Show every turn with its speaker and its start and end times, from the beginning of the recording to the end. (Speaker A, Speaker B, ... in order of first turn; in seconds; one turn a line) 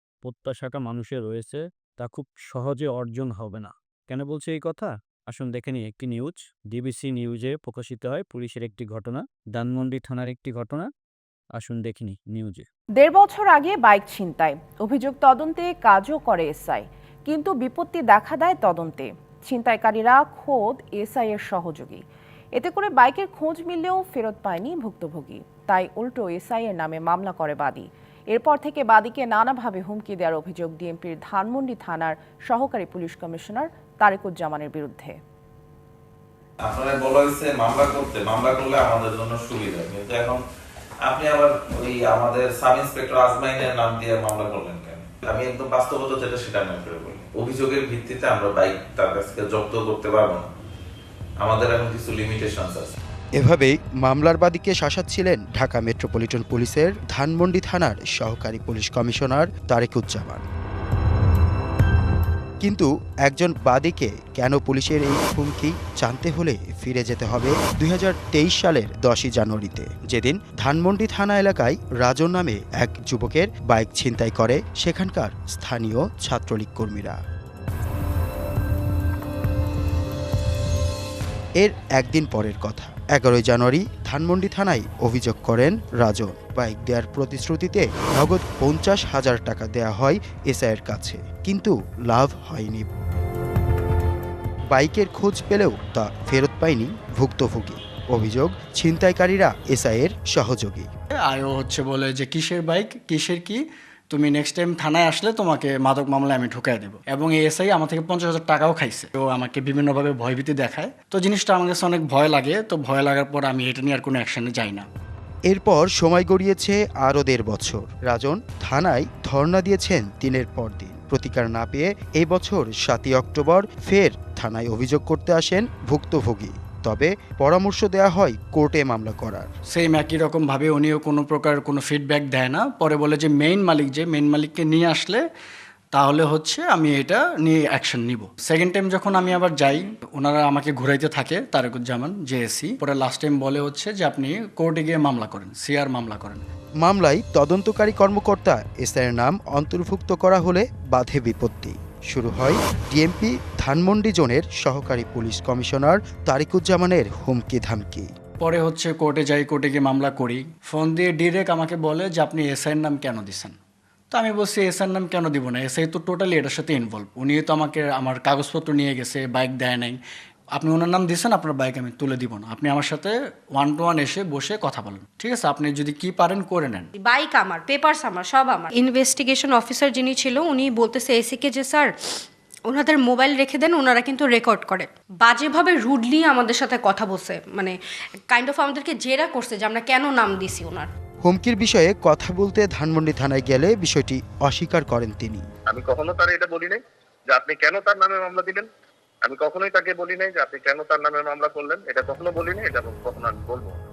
Speaker A: 0.2-10.9
Speaker A: 11.6-12.7
Speaker B: 13.0-22.0
Speaker B: 22.6-35.2
Speaker C: 36.6-40.4
Speaker C: 41.0-50.5
Speaker C: 51.4-53.0
Speaker D: 53.4-60.5
Speaker D: 62.6-77.2
Speaker D: 81.6-92.9
Speaker D: 94.7-100.9
Speaker E: 101.2-114.9
Speaker D: 115.5-129.5
Speaker E: 129.7-135.2
Speaker E: 135.9-146.4
Speaker D: 146.8-158.1
Speaker E: 158.4-163.5
Speaker E: 164.1-170.0
Speaker E: 170.6-176.9
Speaker F: 177.0-181.9
Speaker F: 182.7-187.8
Speaker F: 188.3-190.9
Speaker D: 191.2-195.5
Speaker G: 195.7-196.8
Speaker G: 197.3-198.7
Speaker G: 199.2-203.7